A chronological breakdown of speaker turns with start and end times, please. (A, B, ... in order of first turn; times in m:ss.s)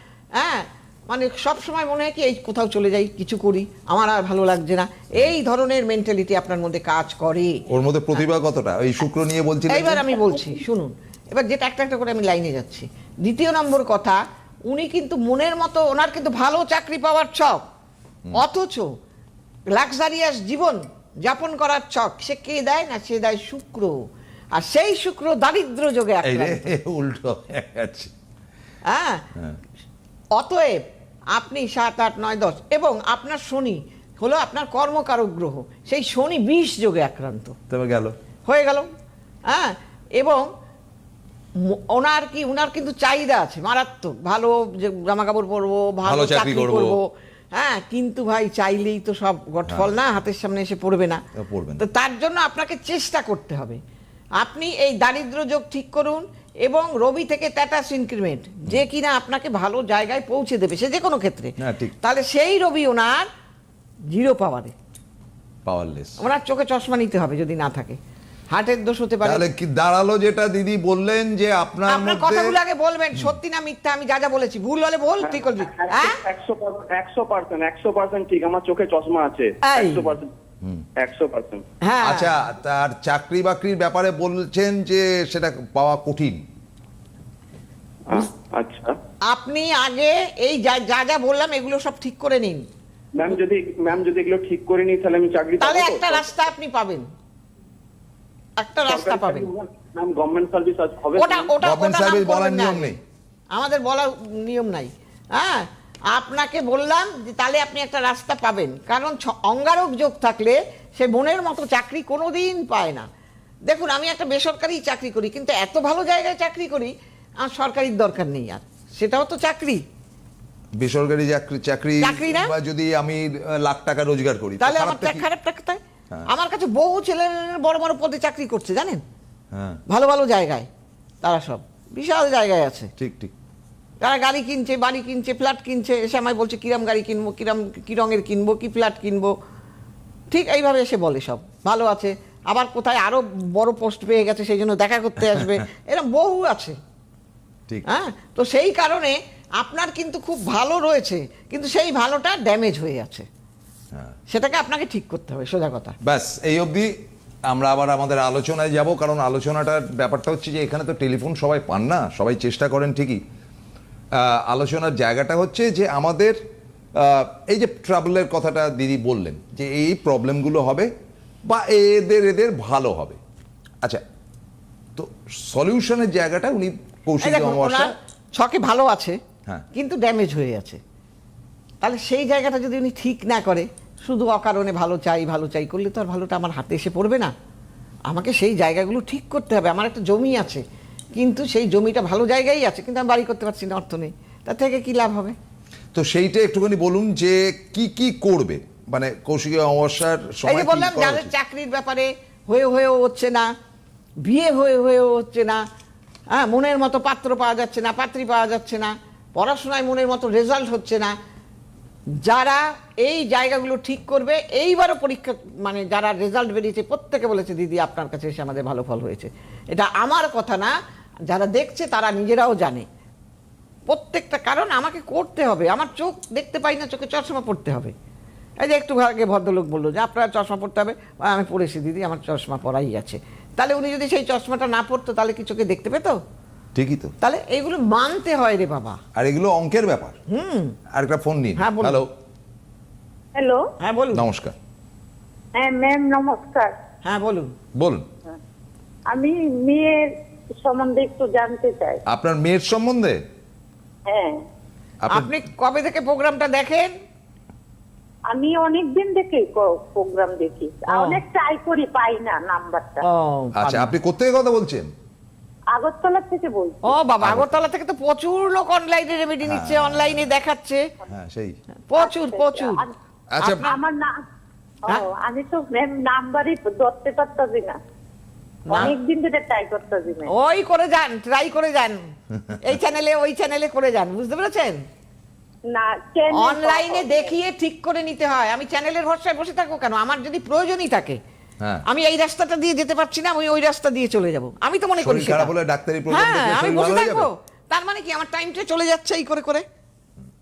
0:00.4-0:07.6 A
0:07.7-0:10.1 B
0:09.7-0:17.6 A
0:18.3-0:18.9 A
0:19.7-0:24.0 A
0:24.5-0:26.6 A
0:26.2-0:28.1 B
0:28.8-0:29.2 A
0:30.3-0:37.6 A
0:37.7-0:38.1 B
0:38.4-0:38.9 A
0:39.5-0:40.5 A
0:41.6-0:51.2 A
0:46.0-0:47.0 B
0:49.7-0:49.9 B
0:51.3-0:51.8 B
0:51.8-0:53.8 A
0:54.4-1:03.3 A
1:01.6-1:01.9 B
1:04.1-1:04.7 A
1:05.6-1:06.2 B
1:06.2-1:08.0 A
1:08.5-1:09.4 A
1:09.2-1:12.6 B
1:11.9-1:16.2 A
1:15.2-1:20.3 C
1:19.6-1:20.1 A
1:21.0-1:21.6 C
1:21.8-1:22.3 A
1:22.0-1:26.4 B
1:28.1-1:29.0 C
1:29.3-1:32.6 A
1:33.1-1:36.3 C
1:35.6-1:37.1 A
1:38.6-1:39.5 A
1:38.8-1:41.5 C
1:41.2-1:43.0 A
1:41.6-1:43.0 B
1:43.5-1:53.1 A
1:53.7-1:59.8 A
2:00.8-2:05.2 B
2:02.0-2:02.5 A
2:04.6-2:09.0 A
2:09.5-2:09.8 B
2:09.9-2:10.7 A
2:11.2-2:12.9 A
2:13.0-2:13.3 B
2:14.0-2:19.3 A
2:20.3-2:26.8 A
2:25.3-2:25.6 B
2:27.8-2:33.2 A
2:33.9-2:34.2 B
2:34.3-2:35.9 A
2:36.0-2:36.9 B
2:37.5-2:43.2 B
2:44.1-2:46.4 B
2:46.9-2:50.9 B
2:51.4-2:53.2 B
2:54.9-2:57.9 B
2:57.2-2:59.2 A
2:59.7-3:00.8 A
3:01.8-3:07.3 A
3:08.1-3:10.6 A
3:11.2-3:15.3 A
3:15.9-3:21.3 B
3:20.4-3:23.5 A
3:24.2-3:25.6 A
3:26.3-3:31.1 A
3:32.2-3:40.7 A
3:41.3-3:42.9 A
3:43.9-3:47.9 A
3:48.6-3:56.2 A
3:56.7-3:57.1 B
3:57.2-3:59.0 A
3:59.2-4:00.2 B
4:00.3-4:00.8 A
4:00.9-4:02.1 B
4:01.6-4:02.0 A
4:03.3-4:03.7 D
4:03.8-4:04.2 A
4:04.1-4:04.5 B
4:05.5-4:06.7 D
4:07.0-4:07.5 A
4:07.7-4:08.1 B
4:09.1-4:12.0 D
4:12.1-4:13.2 B
4:14.1-4:14.4 D
4:15.0-4:15.3 B
4:15.1-4:16.9 A
4:18.3-4:23.0 D
4:20.9-4:21.2 A
4:23.0-4:23.9 A
4:23.6-4:24.9 B
4:25.7-4:26.9 D
4:26.8-4:30.8 A
4:27.2-4:27.5 B
4:29.4-4:30.3 B
4:31.1-4:31.6 B
4:31.9-4:32.8 A
4:32.0-4:32.9 D
4:33.3-4:33.8 B
4:33.4-4:33.7 A
4:33.5-4:34.2 D
4:34.8-4:37.8 D
4:38.7-4:38.9 A
4:38.7-4:40.3 D
4:40.3-4:42.1 A
4:42.6-4:44.8 A
4:45.7-4:47.3 D
4:46.3-4:51.2 A
4:51.8-4:55.5 A
4:55.0-4:57.3 B
4:56.1-4:59.6 A